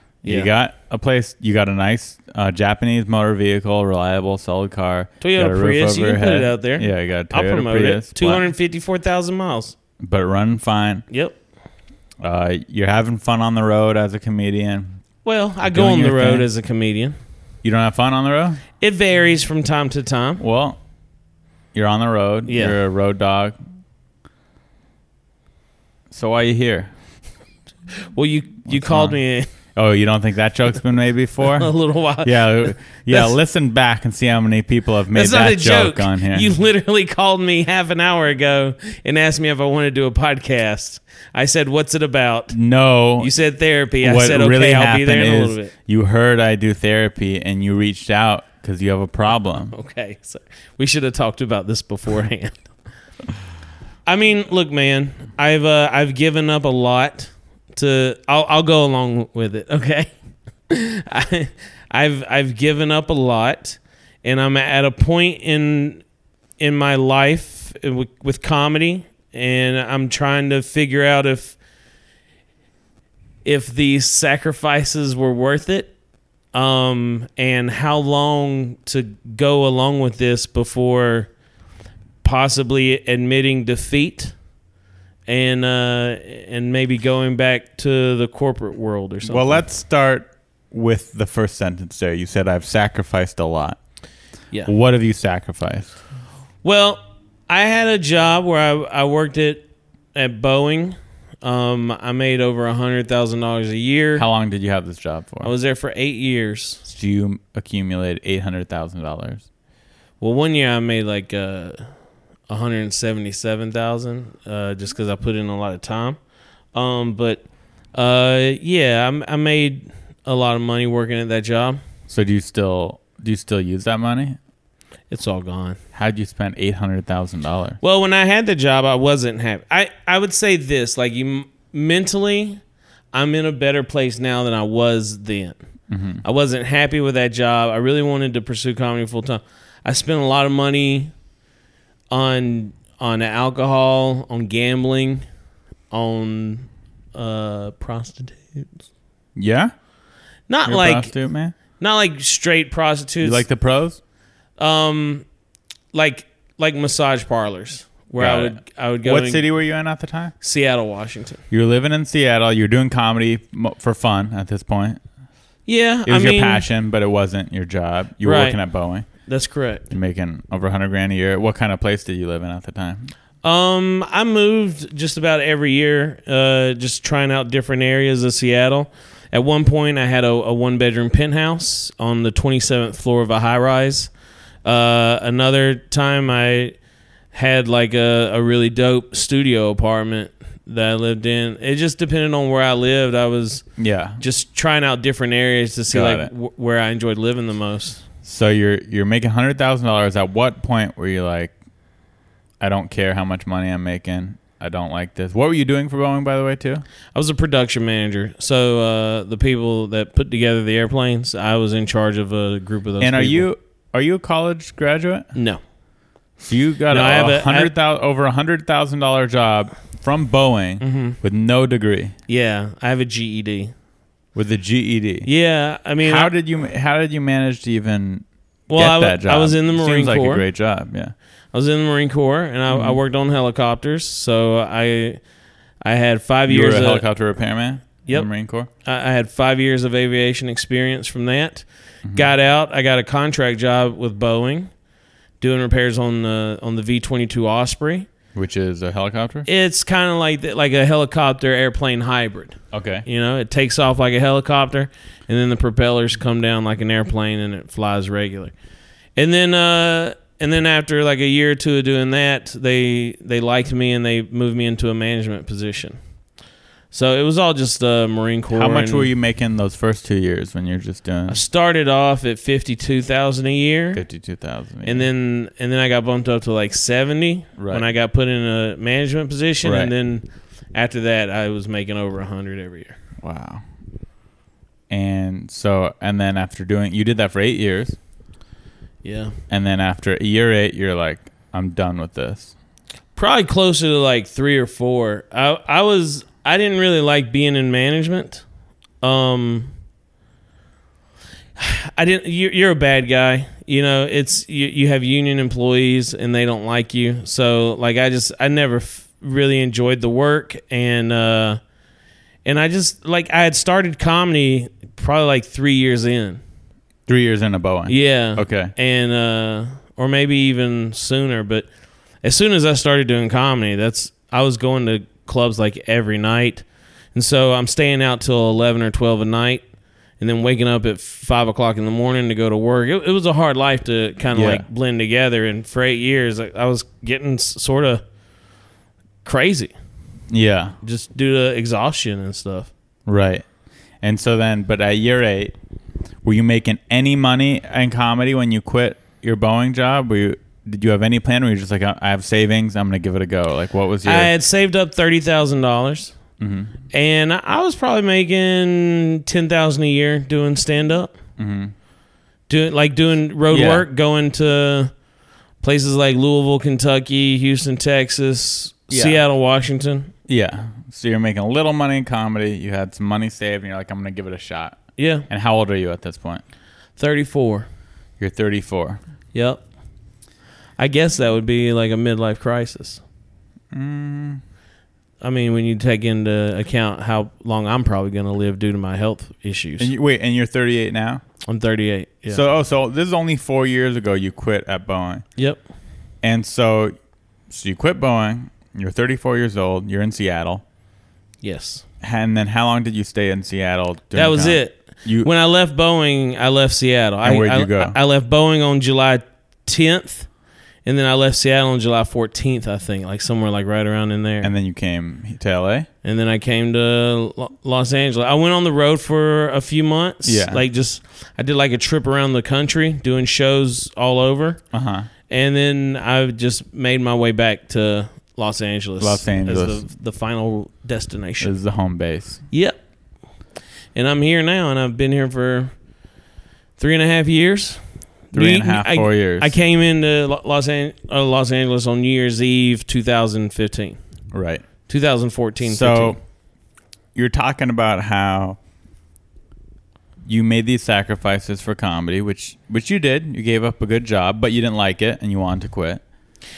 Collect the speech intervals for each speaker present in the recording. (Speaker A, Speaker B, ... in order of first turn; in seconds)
Speaker A: 0.2-0.5, 5.2-9.8, 11.1-11.4, 15.2-17.2, 18.8-20.4, 22.5-22.8, 28.1-29.5, 31.5-33.4, 35.1-42.6, 43.2-45.7, 49.7-52.6, 54.1-60.1, 60.7-66.0, 66.6-71.6, 73.5-75.9, 76.5-81.3, 82.2-84.3, 85.3-89.6, 96.6-104.3, 105.4-106.8, 110.2-111.8, 112.5-116.2, 116.7-121.8, 125.1-125.8, 127.8-132.6, 133.1-135.6, 136.2-141.1, 142.1-145.2, 145.9-148.8, 150.5-151.1, 151.8-153.4, 154.6-155.3, 155.9-159.4, 160.4-161.4, 165.7-166.7, 168.2-168.6, 169.2-169.9, 173.4-184.1, 184.6-186.8, 187.3-193.7, 194.2-198.0, 207.2-213.5, 215.4-215.6, 216.9-217.7, 220.8-221.2, 222.3-223.7, 225.3-226.3, 228.7-230.4, 231.5-235.2, 235.8-237.0, 238.8-244.7, 245.4-248.1, 249.5-258.5, 259.2-266.0, 266.9-269.1, 271.3-274.0, 274.9-283.0, 289.0-289.3, 293.2-298.4, 299.0-299.7, 301.6-311.6, 312.4-316.4, 317.9-321.7, 322.2-329.6, 330.2-338.0, 339.2-339.7, 340.8-342.7, 354.0-356.1, 356.9-361.1, 362.5-364.9, 365.6-370.1, 375.0-375.3, 377.0-377.7, 379.3-379.6, 380.8-383.0, 385.2-389.9, 391.5-392.4, 401.4-401.8, 404.1-410.3, 410.9-414.5, 416.0-424.6, 425.3-431.5, 432.5-432.8, 433.9-435.7, 436.8-437.8, 438.3-444.0, 444.9-446.2
Speaker B: 0.2-8.5, 10.0-11.1, 12.2-15.0, 15.7-16.5, 17.6-18.6, 20.4-20.8, 21.7-23.6, 26.1-26.9, 28.7-29.2, 29.7-36.5, 42.5-43.3, 44.0-49.8, 89.2-93.8, 94.7-95.9, 104.2-105.5, 106.9-109.4, 122.1-124.4, 125.9-127.8, 135.9-136.2, 149.4-149.7, 150.7-151.6, 153.2-154.0, 158.2-160.3, 161.5-165.0, 166.1-169.1, 169.9-173.1, 193.8-194.2, 195.9-196.3, 198.2-201.5, 202.6-206.8, 213.0-215.3, 216.4-222.2, 224.3-225.3, 226.0-231.1, 232.7-233.0, 236.5-238.7, 248.3-249.5, 252.7-253.1, 268.5-271.4, 273.9-275.1, 277.6-277.9, 279.6-279.9, 283.2-283.6, 284.9-288.0, 289.5-292.5, 317.1-318.7, 334.3-334.6, 340.3-340.8, 343.1-343.4, 344.0-345.6, 346.2-354.3, 356.4-356.7, 361.4-361.7, 363.5-363.9, 368.9-369.2, 370.3-376.4, 378.2-379.0, 383.7-384.4, 389.8-391.2, 392.3-395.2, 396.2-396.9, 397.5-400.6, 402.0-405.3, 407.2-408.0, 414.4-415.9, 420.2-420.6, 424.7-425.1, 429.0-429.8, 431.4-432.4, 438.3-439.5, 444.3-444.6, 445.6-446.2, 447.1-448.6, 450.3-456.0